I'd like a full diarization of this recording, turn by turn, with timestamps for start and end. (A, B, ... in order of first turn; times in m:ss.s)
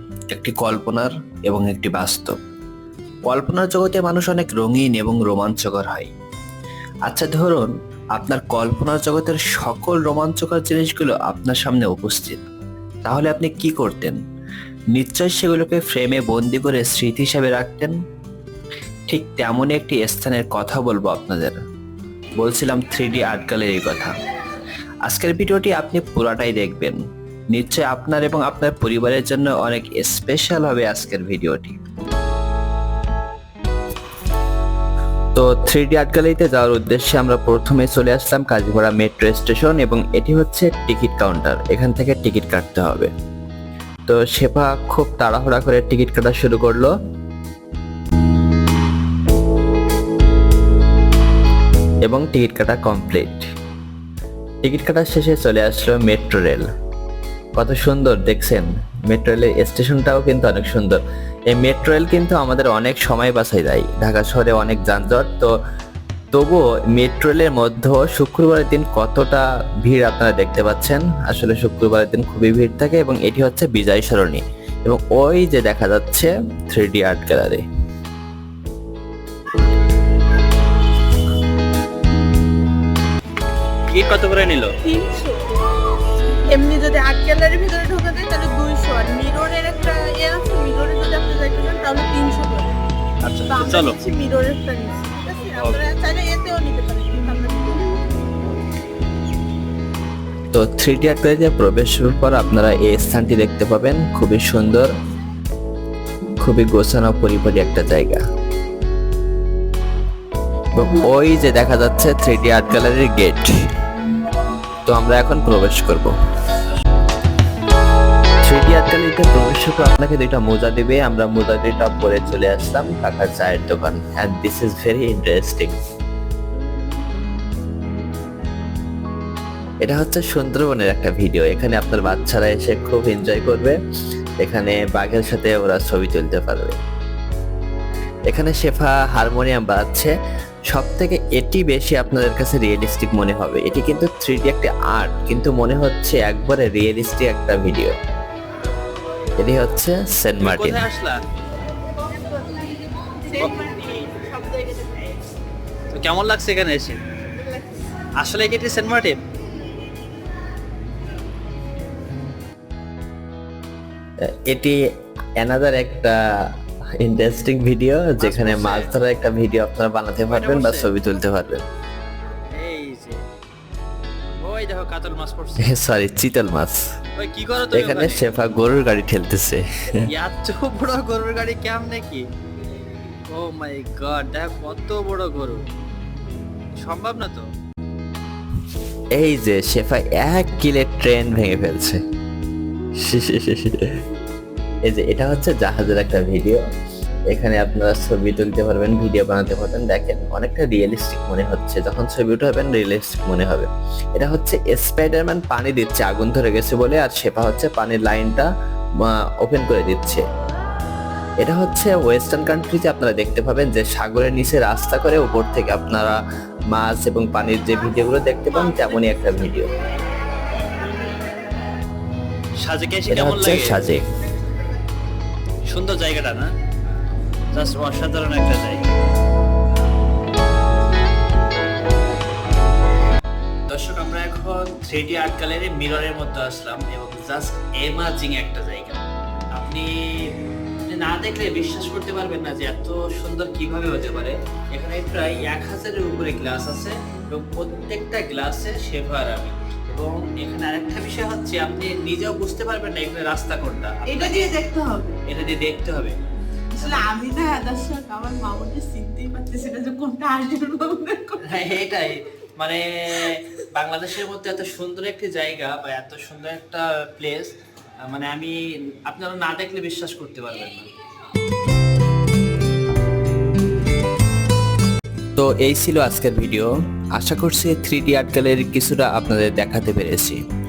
0:00.3-0:02.4 A
0:03.3-0:06.1 A
0:07.1-0:12.4 A
0:13.0-0:14.2 A
0:14.9-0:17.9 A
0:19.1-0:21.6 A
0:22.4-0:24.1 A
0:25.1-0:27.0 A
0:27.5-0:31.8 A
0:35.4-0:43.1 A
0:44.1-0:46.9 A
0:52.0-0:53.5 A
0:54.6-0:56.7 A
0:57.6-1:05.5 A
1:06.3-1:17.6 A
1:23.9-1:24.8 B
1:24.8-1:25.6 C
1:26.5-1:32.8 C
1:33.2-1:34.0 B
1:33.5-1:38.1 C
1:35.6-1:35.9 B
1:40.5-1:44.9 A
1:46.4-1:48.2 A
1:50.8-1:53.5 A
1:54.9-1:56.1 A
1:58.4-2:05.7 A
2:09.8-2:13.8 A
2:14.4-2:16.8 A
2:18.3-2:20.1 A
2:20.7-2:27.9 A
2:29.4-2:30.8 A
2:30.4-2:31.2 B
2:32.1-2:35.2 C
2:35.9-2:37.0 B
2:38.2-2:39.2 B
2:44.2-2:44.8 A
2:45.4-2:46.2 A
2:47.0-2:51.6 A
2:48.2-2:48.9 B
2:50.3-2:50.9 B
2:52.5-2:53.2 B
2:54.4-2:55.7 B
2:55.6-2:56.8 A
2:57.2-2:58.3 B
2:57.7-2:59.6 A
3:00.1-3:02.2 B
3:03.3-3:05.6 B
3:06.8-3:07.5 B
3:09.2-3:12.0 A
3:13.0-3:13.8 A
3:14.9-3:16.6 A
3:17.3-3:28.5 A
3:29.0-3:30.2 A
3:31.4-3:36.2 A
3:36.7-3:39.7 A
3:42.6-3:43.9 B
3:43.1-3:44.0 A
3:45.7-3:46.5 B
3:47.5-3:48.9 B
3:53.7-3:59.0 B
3:59.5-4:00.3 B
4:00.9-4:14.6 B
4:14.1-4:15.2 C
4:15.2-4:16.2 B
4:16.7-4:21.8 C
4:16.8-4:17.1 B
4:21.4-4:30.9 B
4:23.1-4:23.4 C
4:35.4-4:40.4 A